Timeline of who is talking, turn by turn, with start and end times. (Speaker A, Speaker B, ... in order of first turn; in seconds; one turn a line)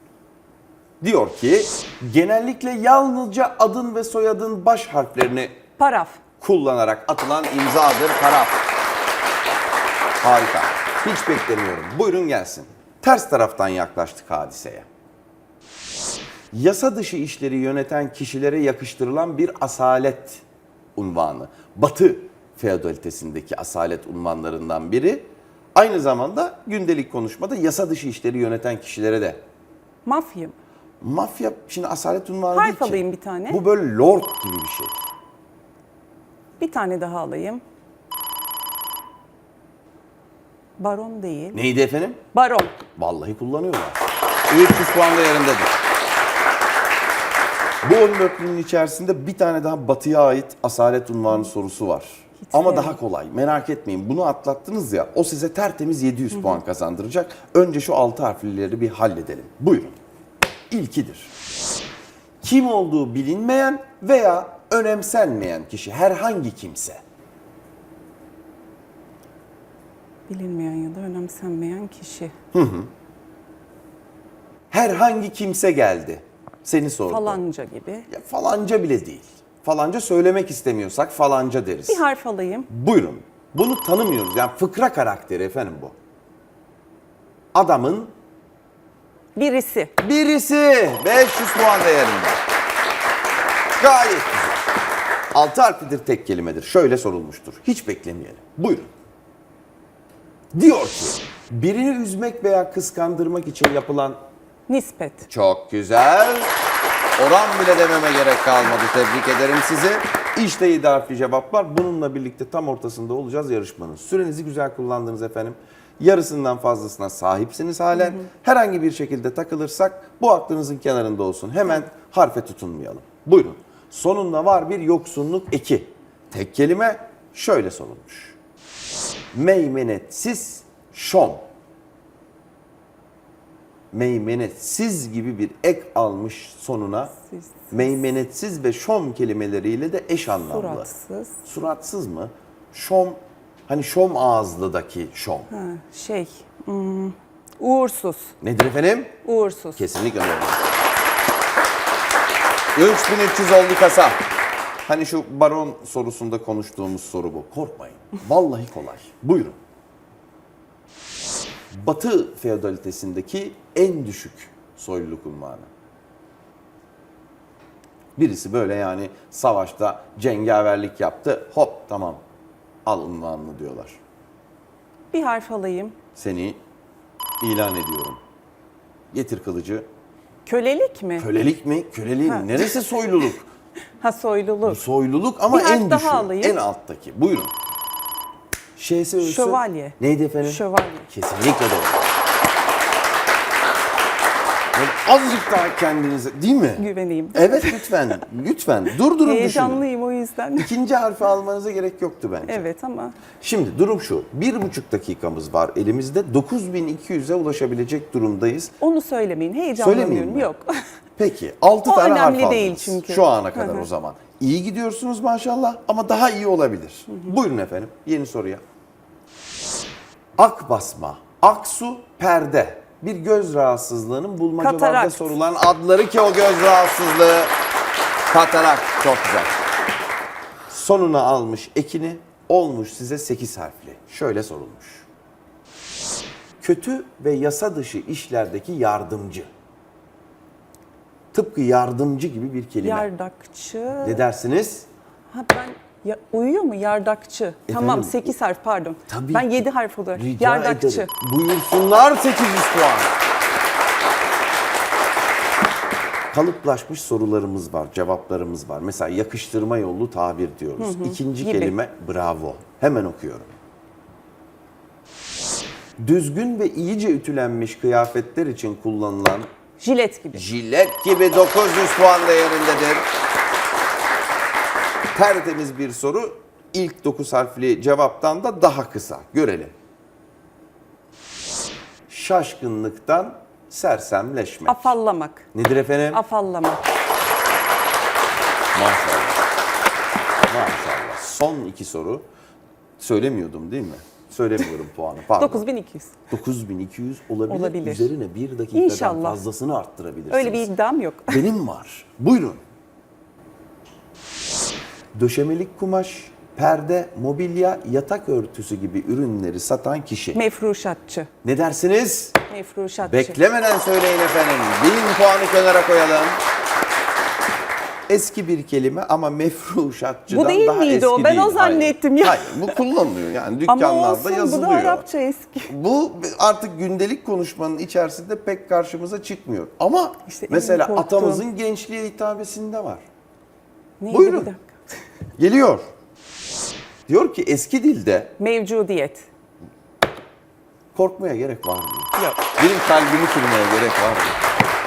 Speaker A: 1.0-5.6
Speaker B: 5.8-6.2
Speaker A: 6.4-8.6
Speaker A: 10.2-14.9
Speaker A: 16.5-20.4
Speaker A: 20.9-29.4
Speaker B: 30.0-30.6
Speaker A: 31.0-35.0
Speaker B: 32.5-33.6
Speaker B: 36.6-37.6
Speaker B: 40.8-41.6
Speaker A: 41.5-42.2
Speaker B: 42.3-42.8
Speaker A: 42.9-45.7
Speaker A: 47.8-60.0
Speaker B: 52.4-53.0
Speaker B: 56.3-56.6
Speaker A: 60.7-61.3
Speaker A: 62.4-67.0
Speaker B: 70.3-72.3
Speaker A: 72.5-72.9
Speaker A: 74.7-77.4
Speaker B: 77.0-78.1
Speaker A: 78.1-82.0
Speaker B: 81.9-82.7
Speaker A: 82.7-85.9
Speaker A: 87.5-88.1
Speaker B: 89.3-89.9
Speaker A: 90.0-92.4
Speaker A: 93.8-94.6
Speaker A: 95.3-98.9
Speaker A: 100.5-104.2
Speaker B: 104.7-105.3
Speaker A: 105.3-106.5
Speaker A: 107.2-128.3
Speaker B: 117.9-118.2
Speaker A: 129.3-131.4
Speaker A: 133.9-137.1
Speaker B: 137.2-137.9
Speaker A: 137.7-140.9
Speaker B: 140.4-141.4
Speaker A: 141.4-145.5
Speaker B: 145.5-148.3
Speaker A: 148.4-149.1
Speaker B: 149.2-149.8
Speaker A: 149.8-150.7
Speaker A: 152.7-154.2
Speaker A: 154.8-159.6
Speaker A: 161.7-165.7
Speaker A: 168.2-172.2
Speaker A: 172.8-174.0
Speaker B: 175.1-175.9
Speaker A: 176.1-176.6
Speaker A: 177.4-178.2
Speaker A: 179.1-179.8
Speaker B: 180.4-181.3
Speaker A: 181.2-183.5
Speaker B: 182.3-182.7
Speaker B: 184.0-184.8
Speaker A: 184.6-187.5
Speaker B: 185.5-186.6
Speaker A: 188.8-192.0
Speaker B: 189.2-191.1
Speaker A: 194.7-199.8
Speaker B: 196.8-198.0
Speaker B: 199.2-200.7
Speaker A: 200.6-202.7
Speaker B: 202.5-203.2
Speaker A: 203.4-208.7
Speaker B: 208.8-210.7
Speaker A: 209.8-210.5
Speaker A: 211.2-218.6
Speaker B: 211.8-213.9
Speaker A: 220.4-227.5
Speaker B: 224.6-225.3
Speaker A: 228.3-229.5
Speaker A: 230.7-235.1
Speaker A: 236.6-239.5
Speaker A: 241.3-243.1
Speaker B: 242.8-244.2
Speaker A: 244.0-244.9
Speaker B: 245.3-251.1
Speaker A: 247.7-248.3
Speaker A: 249.1-249.6
Speaker A: 250.1-253.1
Speaker A: 256.3-263.5
Speaker B: 260.8-261.7
Speaker A: 266.0-269.5
Speaker B: 269.8-270.4
Speaker A: 270.3-273.0
Speaker A: 275.1-279.7
Speaker A: 282.1-285.0
Speaker B: 284.6-285.5
Speaker A: 285.5-286.2
Speaker B: 286.1-286.9
Speaker A: 288.7-289.4
Speaker A: 290.4-292.2
Speaker A: 293.0-295.6
Speaker B: 295.4-296.1
Speaker A: 296.3-300.7
Speaker B: 297.5-298.1
Speaker B: 298.7-299.4
Speaker B: 300.3-301.4
Speaker A: 301.3-302.6
Speaker A: 305.1-310.4
Speaker B: 310.3-311.3
Speaker A: 311.4-312.4
Speaker B: 312.5-313.4
Speaker A: 313.0-316.4
Speaker A: 318.1-325.1
Speaker B: 320.3-322.8
Speaker B: 323.7-325.7
Speaker A: 325.7-333.0
Speaker B: 330.3-331.4
Speaker B: 334.0-334.7
Speaker A: 334.1-334.5
Speaker A: 335.4-335.8
Speaker A: 337.1-338.3
Speaker B: 338.4-339.3
Speaker A: 340.9-344.4